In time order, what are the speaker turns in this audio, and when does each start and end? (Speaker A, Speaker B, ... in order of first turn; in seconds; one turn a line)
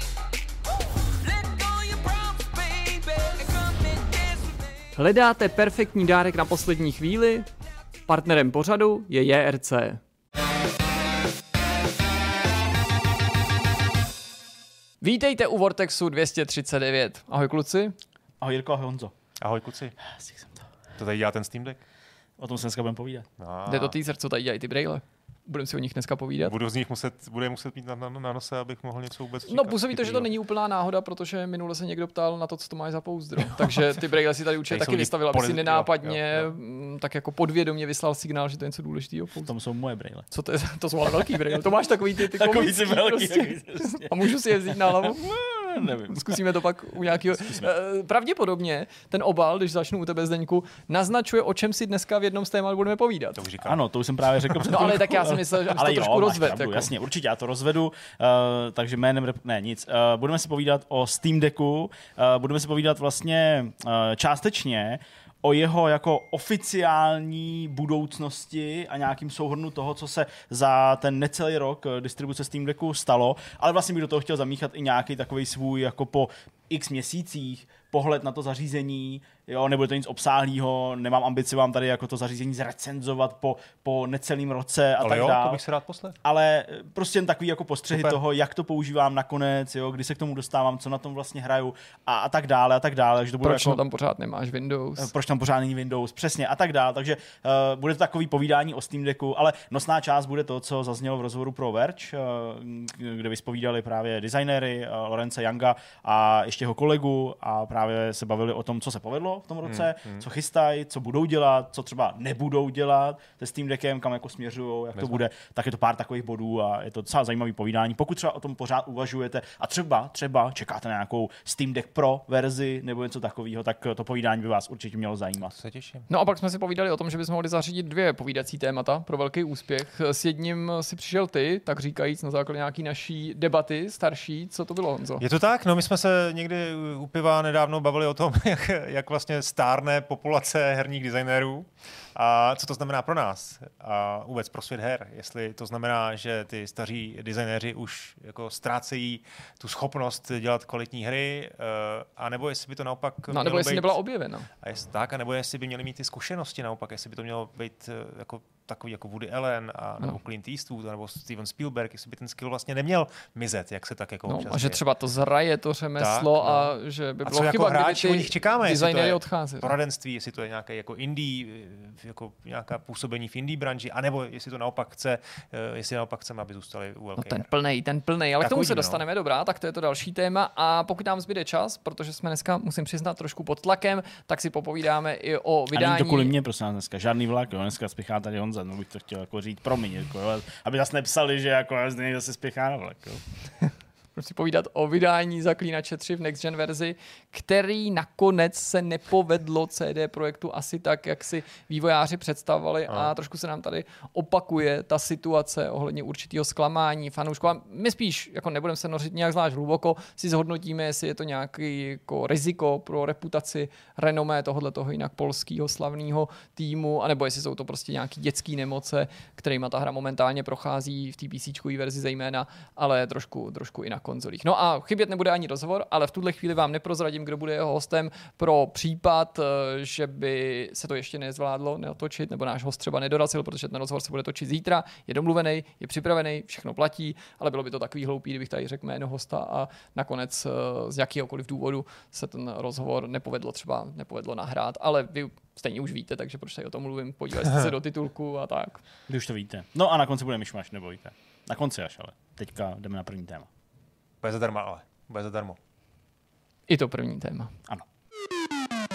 Speaker A: 1.5-3.5
Speaker A: 4.9-7.5
Speaker A: 8.1-10.0
Speaker A: 15.0-17.9
Speaker B: 18.4-19.1
Speaker C: 19.4-20.0
Speaker B: 20.1-20.6
Speaker C: 20.9-21.8
Speaker B: 22.4-23.3
Speaker C: 23.4-23.9
Speaker A: 23.7-26.5
Speaker C: 26.4-30.3
Speaker A: 29.5-39.5
Speaker C: 34.7-36.5
Speaker B: 39.4-40.3
Speaker A: 40.3-53.4
Speaker B: 42.2-44.1
Speaker B: 44.7-46.4
Speaker B: 47.4-47.7
Speaker C: 53.4-53.8
Speaker B: 53.6-85.6
Speaker C: 54.3-54.8
Speaker A: 54.6-56.9
Speaker C: 85.0-86.2
Speaker B: 86.2-93.8
Speaker C: 87.9-88.2
Speaker A: 93.4-95.1
Speaker B: 95.0-125.5
Speaker C: 109.7-110.2
Speaker C: 125.5-126.0
Speaker A: 126.1-135.2
Speaker C: 135.2-154.0
Speaker A: 153.3-154.5
Speaker C: 154.6-164.8
Speaker A: 164.3-169.7
Speaker C: 166.0-177.5
Speaker A: 177.2-186.3
Speaker C: 178.4-179.0
Speaker B: 185.7-193.2
Speaker A: 193.6-248.8
Speaker B: 249.1-253.5
Speaker C: 254.2-255.6
Speaker A: 256.7-257.5